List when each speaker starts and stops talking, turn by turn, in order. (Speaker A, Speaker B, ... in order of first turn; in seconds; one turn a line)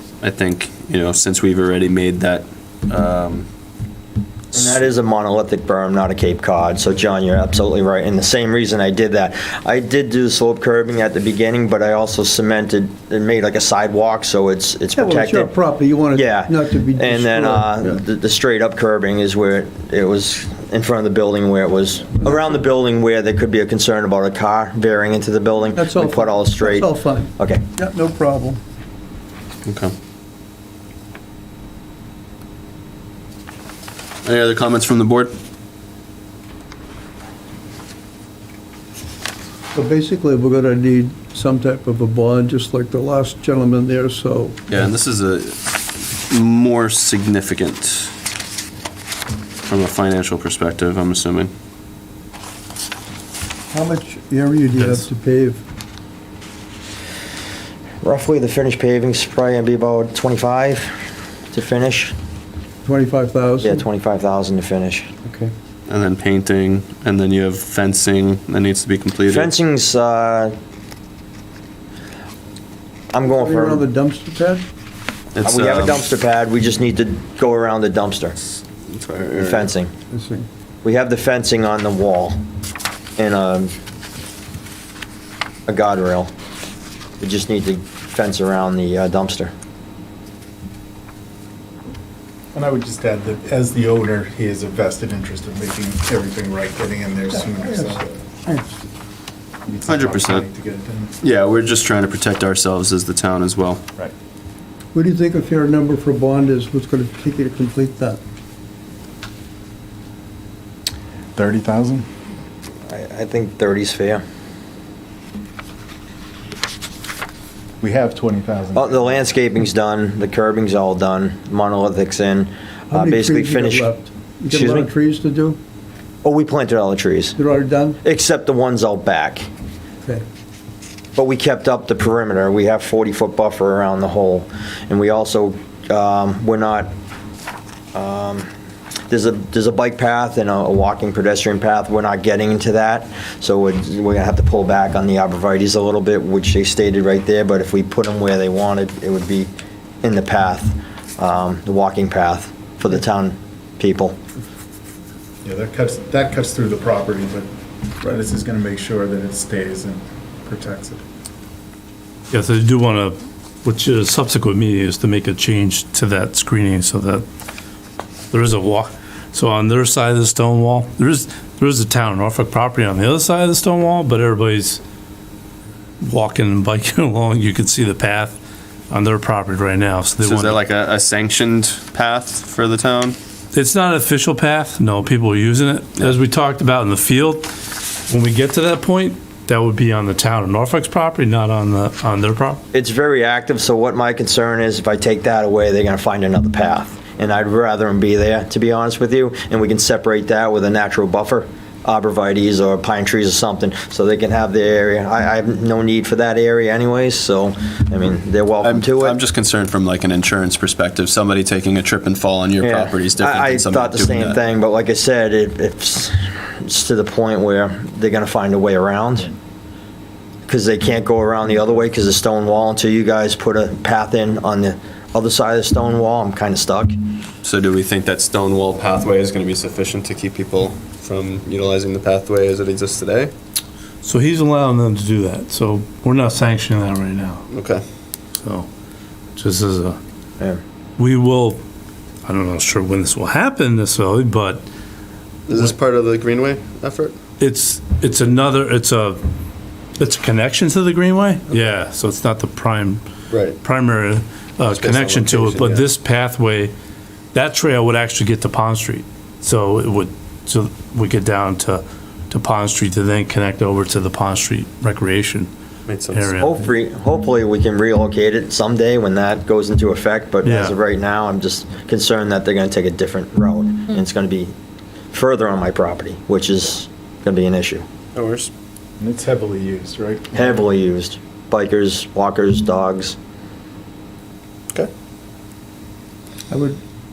Speaker A: 0.2-3.5
Speaker B: 4.5-15.5
Speaker C: 14.9-17.8
Speaker B: 16.1-27.7
Speaker C: 25.7-28.6
Speaker A: 29.6-29.9
Speaker A: 34.2-35.3
Speaker C: 39.7-44.6
Speaker A: 44.7-48.1
Speaker A: 49.6-51.5
Speaker C: 53.7-55.6
Speaker D: 54.7-55.1
Speaker B: 58.0-61.0
Speaker B: 61.5-62.1
Speaker C: 62.8-63.8
Speaker B: 63.6-65.1
Speaker C: 65.2-65.5
Speaker A: 65.9-69.5
Speaker B: 69.2-70.5
Speaker B: 73.1-73.8
Speaker C: 73.2-74.7
Speaker A: 75.3-76.0
Speaker B: 75.4-78.4
Speaker A: 78.9-79.7
Speaker B: 79.3-79.9
Speaker C: 80.1-80.5
Speaker B: 80.8-82.4
Speaker B: 83.2-83.7
Speaker B: 85.7-86.3
Speaker B: 87.2-89.5
Speaker E: 92.5-98.2
Speaker C: 97.3-98.8
Speaker E: 99.7-101.2
Speaker A: 99.9-100.5
Speaker A: 101.2-103.8
Speaker C: 104.9-108.2
Speaker E: 111.3-112.1
Speaker B: 112.9-114.2
Speaker E: 117.8-119.0
Speaker B: 118.7-123.9
Speaker C: 122.9-125.6
Speaker B: 124.5-124.9
Speaker B: 126.2-127.4
Speaker C: 127.3-128.0
Speaker B: 128.0-129.5
Speaker B: 131.2-136.9
Speaker B: 137.9-138.5
Speaker B: 139.1-149.5
Speaker B: 150.0-154.2
Speaker E: 155.4-157.5
Speaker E: 158.0-161.0
Speaker D: 162.3-167.2
Speaker D: 168.3-174.8
Speaker D: 176.0-178.4
Speaker D: 178.9-180.6
Speaker A: 180.2-183.2
Speaker D: 183.5-187.5
Speaker D: 188.1-192.6
Speaker B: 192.7-209.2
Speaker A: 208.6-214.4
Speaker B: 212.6-219.3
Speaker B: 220.5-226.9
Speaker A: 227.4-233.3
Speaker D: 234.0-237.4
Speaker A: 237.5-237.8
Speaker D: 239.3-240.0
Speaker D: 241.0-241.6
Speaker D: 242.2-244.7
Speaker A: 245.5-247.2
Speaker D: 247.4-249.2
Speaker D: 250.0-253.0
Speaker A: 253.3-253.6
Speaker D: 253.6-256.7
Speaker A: 254.7-255.8
Speaker D: 257.3-265.5
Speaker A: 265.9-266.2
Speaker D: 266.1-266.6
Speaker B: 266.4-274.5
Speaker D: 270.4-270.7
Speaker B: 275.1-277.8
Speaker A: 278.1-278.5
Speaker E: 279.0-280.5
Speaker B: 280.3-283.1
Speaker C: 286.5-286.8